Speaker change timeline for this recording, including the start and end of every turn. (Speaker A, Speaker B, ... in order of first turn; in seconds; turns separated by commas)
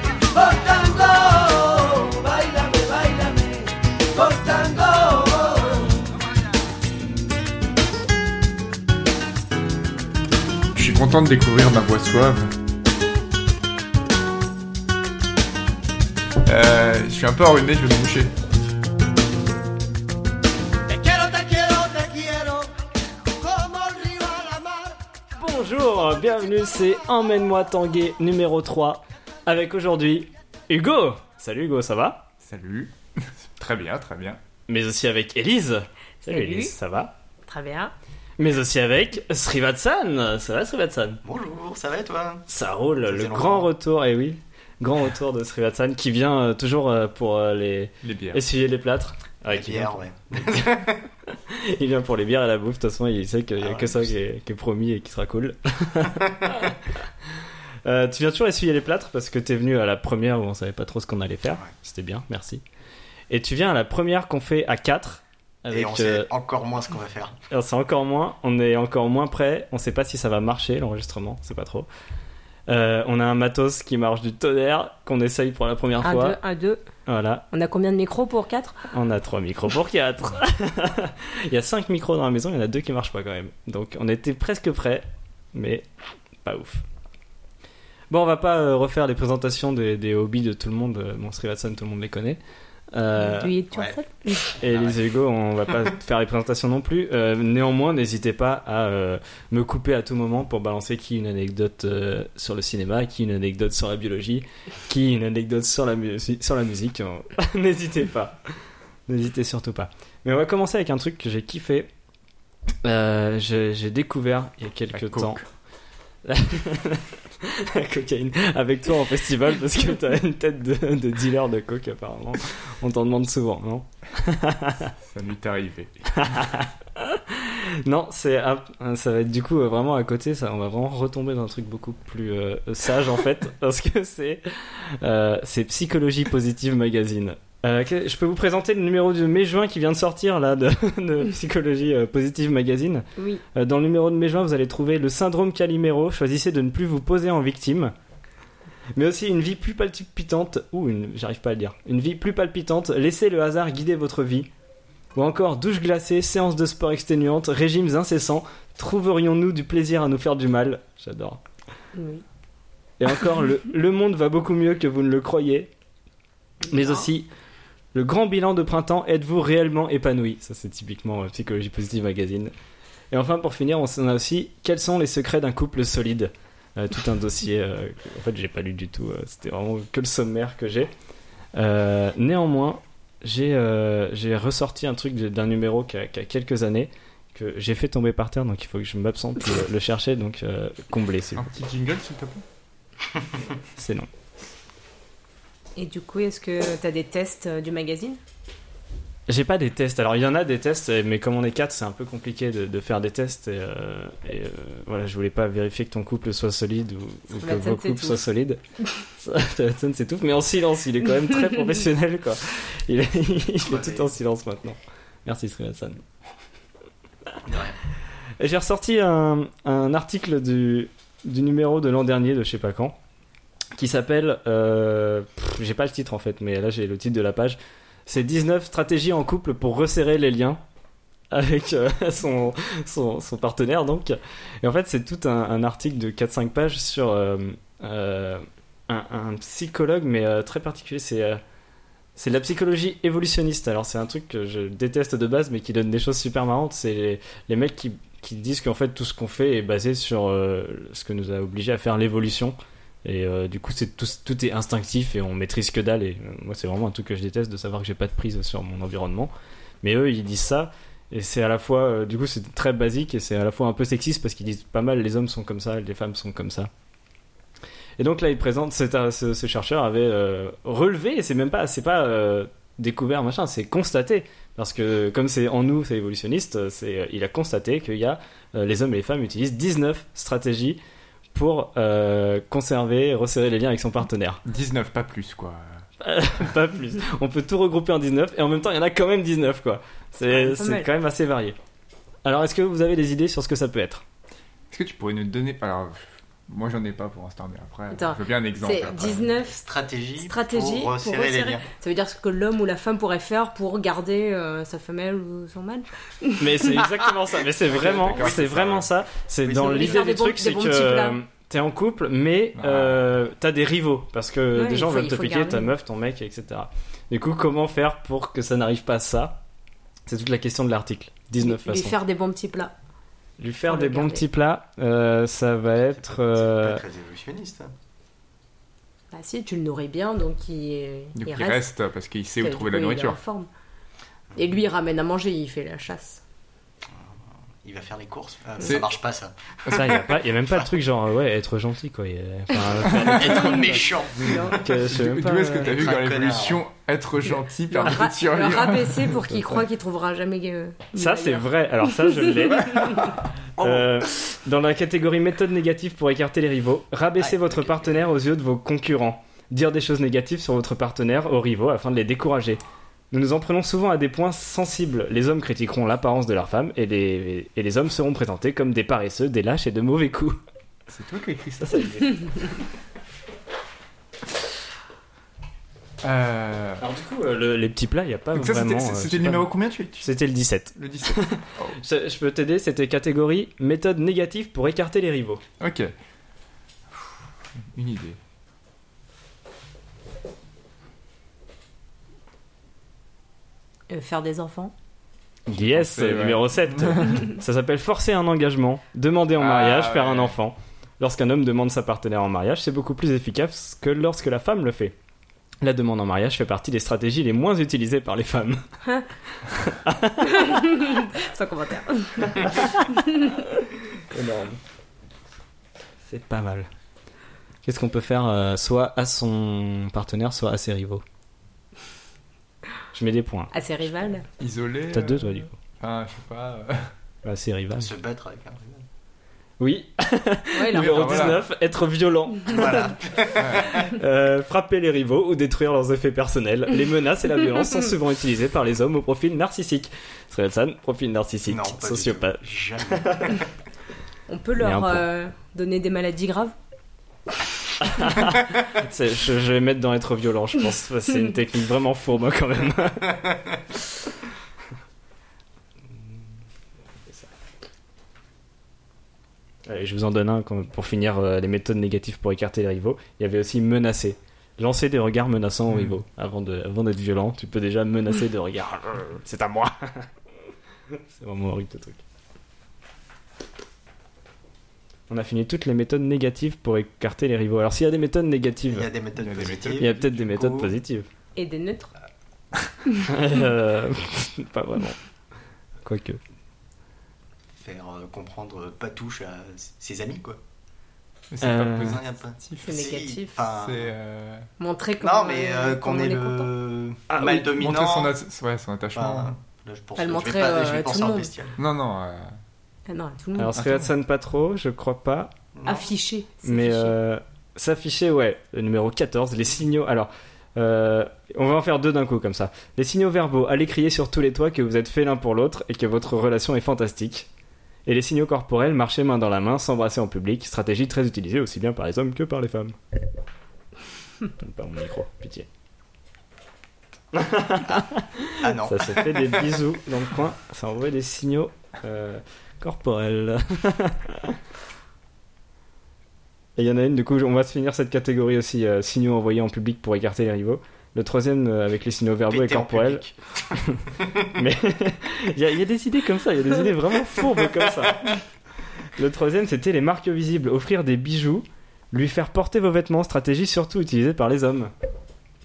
Speaker A: 0.3-5.9, Speaker B: 10.7-12.5, Speaker B: 16.4-18.3, Speaker A: 20.9-22.7, Speaker A: 23.4-24.9, Speaker C: 25.4-32.3, Speaker B: 32.4-34.4, Speaker C: 34.7-37.1, Speaker D: 36.2-36.7, Speaker D: 37.5-37.9, Speaker C: 38.4-41.2, Speaker E: 41.2-42.5, Speaker C: 42.5-56.8, Speaker E: 43.0-43.7, Speaker B: 48.0-48.4, Speaker E: 49.5-51.0, Speaker E: 53.6-54.1, Speaker C: 57.8-62.6, Speaker C: 63.3-66.3, Speaker E: 65.7-67.4, Speaker C: 67.5-71.9, Speaker C: 72.7-76.4, Speaker D: 76.0-76.8, Speaker C: 77.0-77.5, Speaker D: 77.5-78.8, Speaker C: 78.9-85.8, Speaker C: 86.4-86.8, Speaker C: 88.1-92.4, Speaker C: 92.9-93.5, Speaker D: 93.2-94.5, Speaker E: 93.7-94.0, Speaker E: 94.5-95.0, Speaker C: 94.6-108.5, Speaker C: 109.1-111.9, Speaker C: 112.8-115.4, Speaker B: 114.9-115.5, Speaker C: 116.2-124.9, Speaker B: 125.0-126.4, Speaker C: 126.1-147.9, Speaker D: 143.2-143.4, Speaker C: 148.9-154.5, Speaker C: 155.1-161.4, Speaker D: 161.9-162.2, Speaker C: 163.0-165.7, Speaker D: 166.7-167.1, Speaker C: 166.7-167.3, Speaker C: 167.9-172.5, Speaker C: 173.1-180.9, Speaker C: 181.5-191.4, Speaker B: 191.3-192.4, Speaker C: 193.8-194.1, Speaker D: 195.8-198.2, Speaker C: 199.3-208.6, Speaker D: 207.4-208.2, Speaker C: 209.2-216.0, Speaker E: 213.6-214.1, Speaker E: 217.4-217.8, Speaker C: 218.4-222.9, Speaker C: 223.8-230.6, Speaker C: 231.3-241.4, Speaker C: 242.2-266.7, Speaker C: 268.0-280.8, Speaker C: 281.3-284.4, Speaker B: 284.4-285.8, Speaker C: 286.0-291.6, Speaker D: 290.3-290.9, Speaker C: 292.2-294.0, Speaker B: 294.7-299.3, Speaker D: 297.9-299.6, Speaker E: 299.0-301.6, Speaker D: 300.2-306.3, Speaker C: 306.4-319.4, Speaker B: 307.7-308.9, Speaker E: 308.0-308.4, Speaker E: 309.4-310.1, Speaker D: 309.5-311.2, Speaker B: 312.6-313.0, Speaker D: 314.5-315.7, Speaker C: 320.1-321.9, Speaker D: 321.4-322.7, Speaker C: 323.4-326.8, Speaker D: 323.7-324.2, Speaker E: 325.7-327.7, Speaker D: 329.1-331.6, Speaker B: 331.1-333.2, Speaker D: 332.4-333.5, Speaker D: 334.3-336.2, Speaker E: 336.9-340.6, Speaker B: 338.6-338.9, Speaker C: 339.7-343.9, Speaker E: 342.8-344.6, Speaker D: 344.1-344.6, Speaker C: 344.5-345.7, Speaker B: 344.8-349.2, Speaker E: 345.6-346.6, Speaker D: 347.7-352.6, Speaker C: 349.2-349.6, Speaker C: 350.9-370.4, Speaker E: 353.6-354.1, Speaker E: 357.2-358.0, Speaker B: 370.9-372.1, Speaker C: 371.6-372.5, Speaker B: 376.0-376.8, Speaker C: 376.8-385.4, Speaker B: 378.3-380.1, Speaker B: 380.8-381.8, Speaker B: 385.6-385.9, Speaker B: 387.7-388.2, Speaker D: 393.9-394.7, Speaker C: 395.5-404.9, Speaker B: 395.5-397.3, Speaker B: 399.4-400.3, Speaker C: 405.6-408.7, Speaker C: 409.4-410.5, Speaker D: 410.2-413.4, Speaker C: 412.3-412.8, Speaker C: 414.1-414.6, Speaker C: 416.1-416.7, Speaker C: 417.6-421.0, Speaker C: 422.9-423.5, Speaker D: 423.5-424.3, Speaker B: 424.4-426.9, Speaker C: 424.9-425.6, Speaker C: 427.2-427.9, Speaker E: 427.8-428.9, Speaker C: 429.6-443.4, Speaker D: 430.5-431.4, Speaker B: 430.7-431.4, Speaker E: 432.4-433.9, Speaker B: 433.3-433.9, Speaker E: 441.4-443.4, Speaker D: 444.3-446.5, Speaker C: 444.6-445.0, Speaker C: 447.8-453.3, Speaker C: 459.6-470.1, Speaker C: 470.9-472.0, Speaker C: 475.1-478.9, Speaker E: 478.7-480.7, Speaker B: 479.1-480.2, Speaker C: 479.8-481.1, Speaker D: 481.4-481.9, Speaker C: 483.1-485.0, Speaker C: 485.8-486.2, Speaker E: 487.6-490.4, Speaker B: 491.3-492.8, Speaker C: 491.4-492.0, Speaker E: 491.8-493.9, Speaker D: 492.6-493.3, Speaker B: 493.4-494.5, Speaker D: 494.6-496.5, Speaker E: 495.0-498.1, Speaker B: 497.1-499.3, Speaker E: 498.9-501.6, Speaker D: 500.0-501.3, Speaker B: 501.6-502.4, Speaker D: 502.9-503.6, Speaker C: 503.4-505.3, Speaker B: 503.5-503.9, Speaker E: 505.5-505.9, Speaker D: 505.6-506.9, Speaker C: 506.4-517.3, Speaker C: 517.9-522.8, Speaker C: 524.4-525.5, Speaker C: 527.1-534.4, Speaker E: 528.4-529.6, Speaker C: 536.5-548.2, Speaker E: 542.3-543.4, Speaker E: 544.0-544.3, Speaker C: 548.9-554.7